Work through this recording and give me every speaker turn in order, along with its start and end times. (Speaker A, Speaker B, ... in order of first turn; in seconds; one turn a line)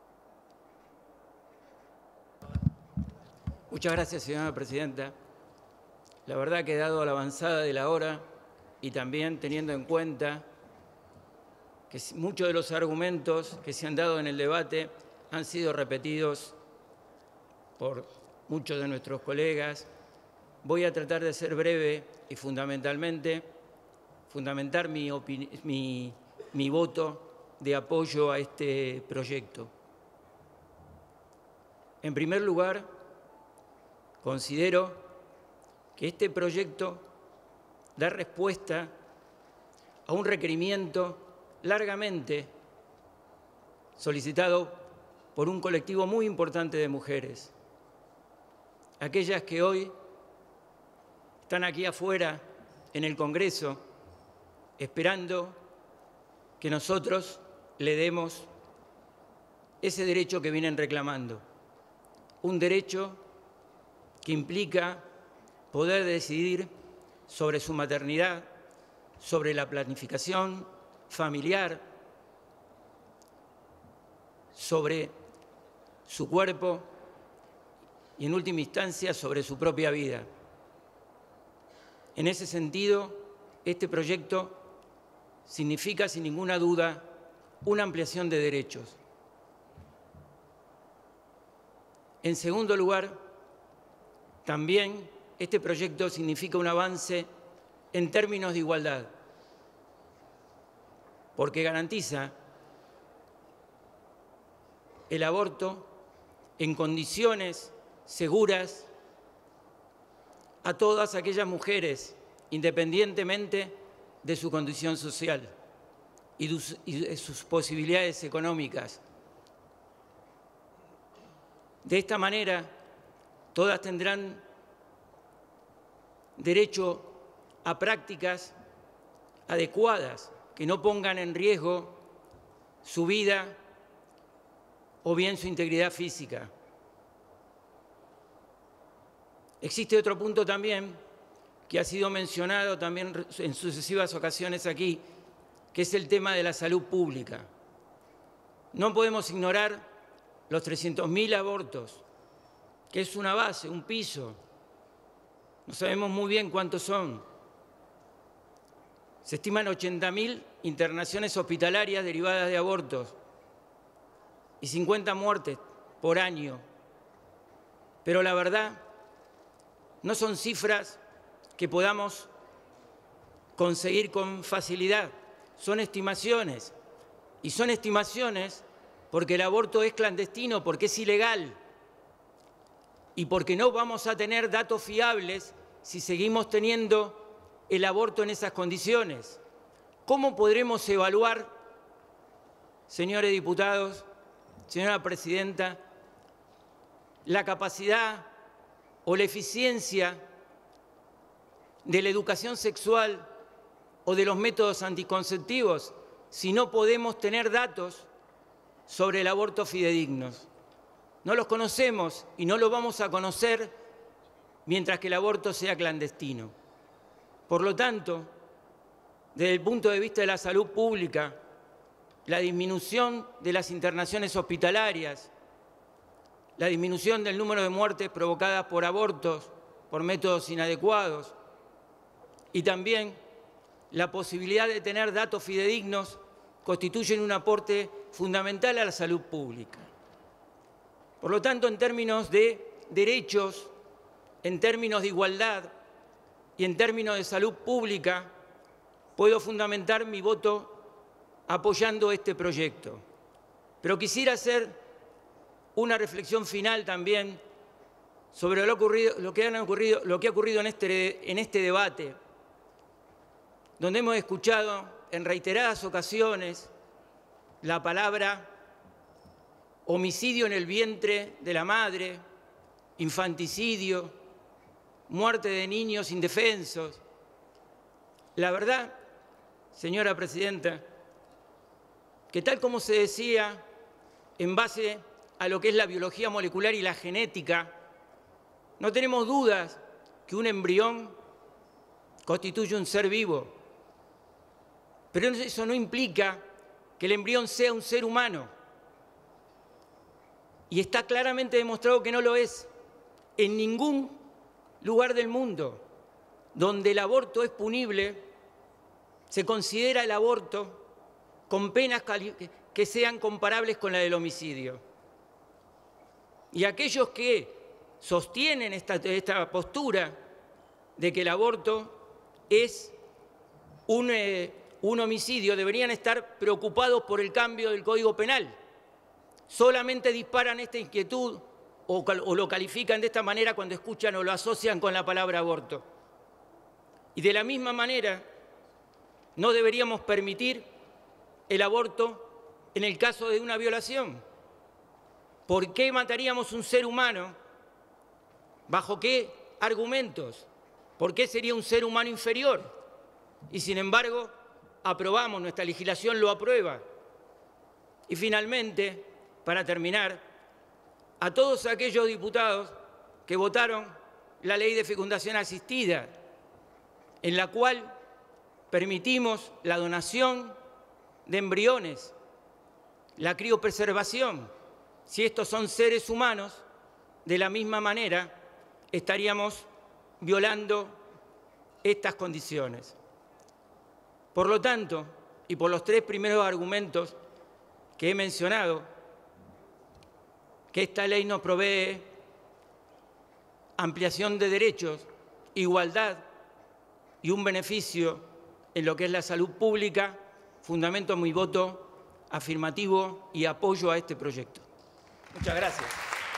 Speaker A: 3.7-5.1
Speaker A: 6.3-8.2
Speaker A: 8.8-10.4
Speaker A: 11.9-16.6
Speaker A: 17.8-19.9
Speaker A: 20.6-23.5
Speaker A: 24.3-29.7
Speaker A: 32.0-32.9
Speaker A: 34.2-35.0
Speaker A: 36.0-37.0
Speaker A: 38.0-38.9
Speaker A: 40.1-42.5
Speaker A: 44.0-44.8
Speaker A: 45.4-47.5
Speaker A: 49.0-49.9
Speaker A: 51.4-53.8
Speaker A: 54.8-55.6
Speaker A: 56.6-58.5
Speaker A: 59.8-61.4
Speaker A: 62.4-63.2
Speaker A: 64.2-65.0
Speaker A: 65.7-66.7
Speaker A: 67.3-68.5
Speaker A: 69.2-71.8
Speaker A: 74.5-75.1
Speaker A: 76.1-76.9
Speaker A: 78.2-80.3
Speaker A: 82.2-84.7
Speaker A: 85.5-87.1
Speaker A: 87.6-89.0
Speaker A: 92.2-93.2
Speaker A: 94.5-97.3
Speaker A: 97.9-99.1
Speaker A: 101.4-102.3
Speaker A: 105.1-105.9
Speaker A: 106.6-108.9
Speaker A: 110.6-115.5
Speaker A: 116.4-119.0
Speaker A: 121.8-122.8
Speaker A: 123.5-124.4
Speaker A: 126.4-128.5
Speaker A: 129.5-132.0
Speaker A: 132.8-133.6
Speaker A: 135.0-136.5
Speaker A: 139.6-141.0
Speaker A: 141.7-145.0
Speaker A: 145.7-147.5
Speaker A: 148.7-149.8
Speaker A: 150.5-152.0
Speaker A: 152.9-154.4
Speaker A: 155.7-157.2
Speaker A: 159.2-163.2
Speaker A: 164.6-166.6
Speaker A: 168.1-168.8
Speaker A: 170.0-171.0
Speaker A: 171.6-172.3
Speaker A: 173.6-176.8
Speaker A: 177.4-181.6
Speaker A: 183.2-189.4
Speaker A: 190.1-191.5
Speaker A: 192.9-194.1
Speaker A: 194.7-195.8
Speaker A: 197.2-198.3
Speaker A: 199.1-200.2
Speaker A: 201.8-203.3
Speaker A: 204.1-208.1
Speaker A: 208.9-210.5
Speaker A: 211.2-213.7
Speaker A: 214.7-216.5
Speaker A: 217.5-218.3
Speaker A: 219.3-221.4
Speaker A: 222.3-225.3
Speaker A: 226.6-231.3
Speaker A: 232.5-233.2
Speaker A: 233.9-239.9
Speaker A: 241.2-243.7
Speaker A: 244.4-245.7
Speaker A: 246.6-248.3
Speaker A: 249.2-250.8
Speaker A: 251.5-253.0
Speaker A: 253.8-254.8
Speaker A: 255.8-257.4
Speaker A: 258.3-262.2
Speaker A: 263.8-266.7
Speaker A: 267.6-268.5
Speaker A: 269.9-272.2
Speaker A: 273.0-274.1
Speaker A: 275.1-277.0
Speaker A: 278.4-279.0
Speaker A: 279.7-280.8
Speaker A: 282.3-283.6
Speaker A: 284.4-287.8
Speaker A: 288.8-291.2
Speaker A: 292.3-293.5
Speaker A: 295.1-296.4
Speaker A: 297.0-298.5
Speaker A: 300.7-302.7
Speaker A: 303.4-304.2
Speaker A: 304.8-305.8
Speaker A: 306.5-308.3
Speaker A: 309.3-310.8
Speaker A: 311.5-314.8
Speaker A: 316.5-320.2
Speaker A: 321.0-322.9
Speaker A: 323.9-328.5
Speaker A: 329.5-335.9
Speaker A: 337.1-338.2
Speaker A: 339.4-340.7
Speaker A: 341.5-344.2
Speaker A: 345.5-347.4
Speaker A: 348.7-350.5
Speaker A: 351.0-352.7
Speaker A: 353.5-354.3
Speaker A: 354.8-356.8
Speaker A: 358.1-360.2
Speaker A: 361.2-362.8
Speaker A: 363.3-366.1
Speaker A: 367.2-367.9
Speaker A: 368.7-370.6
Speaker A: 371.3-372.1
Speaker A: 373.2-374.5
Speaker A: 375.1-376.6
Speaker A: 377.2-378.4
Speaker A: 378.9-379.7
Speaker A: 380.2-381.0
Speaker A: 381.8-383.0
Speaker A: 384.4-387.2
Speaker A: 388.0-388.9
Speaker A: 390.7-392.1
Speaker A: 393.8-396.2
Speaker A: 397.2-404.7
Speaker A: 405.4-405.9